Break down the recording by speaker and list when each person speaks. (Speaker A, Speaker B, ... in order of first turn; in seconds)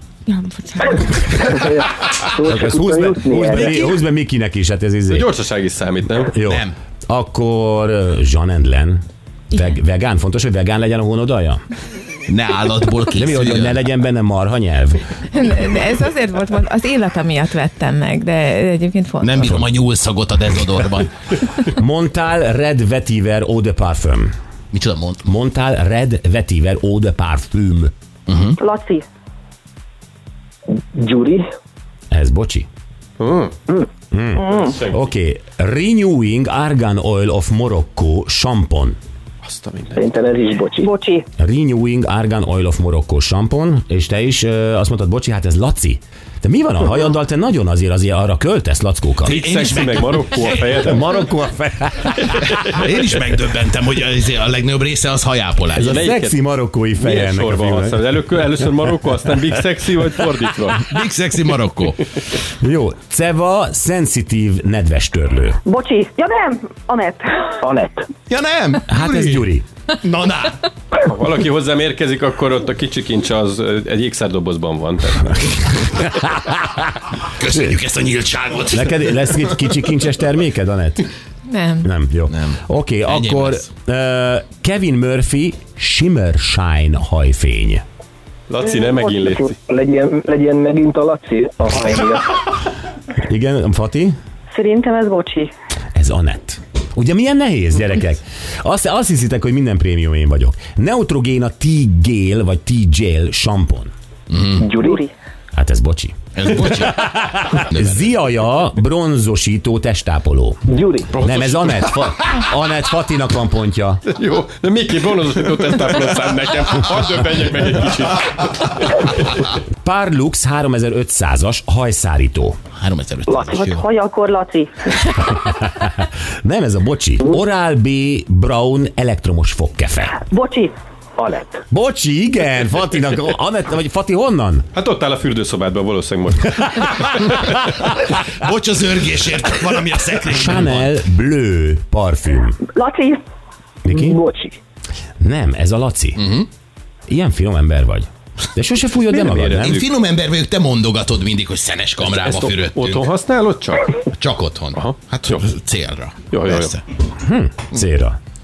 Speaker A: 0.3-1.5, 15.3-19.5, 81.5-81.9
Speaker B: 1.4-3.9, 30.8-31.4, 40.0-40.9, 67.6-68.1, 89.7-92.4, 104.6-105.0, 110.7-111.1, 123.3-123.5, 131.2-131.6, 143.9-144.6
Speaker C: 2.4-5.3, 6.3-11.6, 13.1-15.0, 21.7-24.3, 25.2-27.9, 32.1-32.7, 34.1-39.0, 41.4-49.4, 50.8-52.5, 55.8-59.3, 62.6-65.6, 68.9-69.7, 75.8-76.6, 78.7-81.1, 81.8-87.8, 93.2-94.2, 96.0-103.9, 105.5-110.6, 111.2-114.0, 119.8-122.6, 125.4-130.2, 131.7-134.7, 136.6-137.4, 140.3-142.6, 143.8-144.2, 145.2-146.2, 147.1-149.8, 157.2-158.2
Speaker D: 5.1-6.3, 33.2-33.5, 34.7-35.0, 39.4-40.1, 49.3-51.0, 55.8-56.4, 57.0-60.9, 71.0-75.7, 88.5-89.6, 111.1-111.9, 114.1-119.0, 134.8-137.1, 149.0-149.9, 152.0-153.9, 154.7-155.4, 156.3-156.8
Speaker E: 6.5-6.7, 12.3-13.8, 19.2-21.1, 24.7-25.3, 28.3-28.6, 49.2-51.0, 52.5-56.0, 60.8-62.0, 68.3-69.4, 70.0-70.7, 77.4-79.5, 82.3-83.7, 104.3-104.7, 106.3-108.0, 122.7-123.8, 137.9-140.9, 146.2-146.5, 149.6-153.1, 154.1-156.8
Speaker F: 28.6-29.1, 34.4-34.8, 40.8-41.3, 65.7-67.6, 88.7-89.5, 94.5-95.5, 104.8-105.1, 123.5-124.9, 130.3-130.7, 142.7-143.2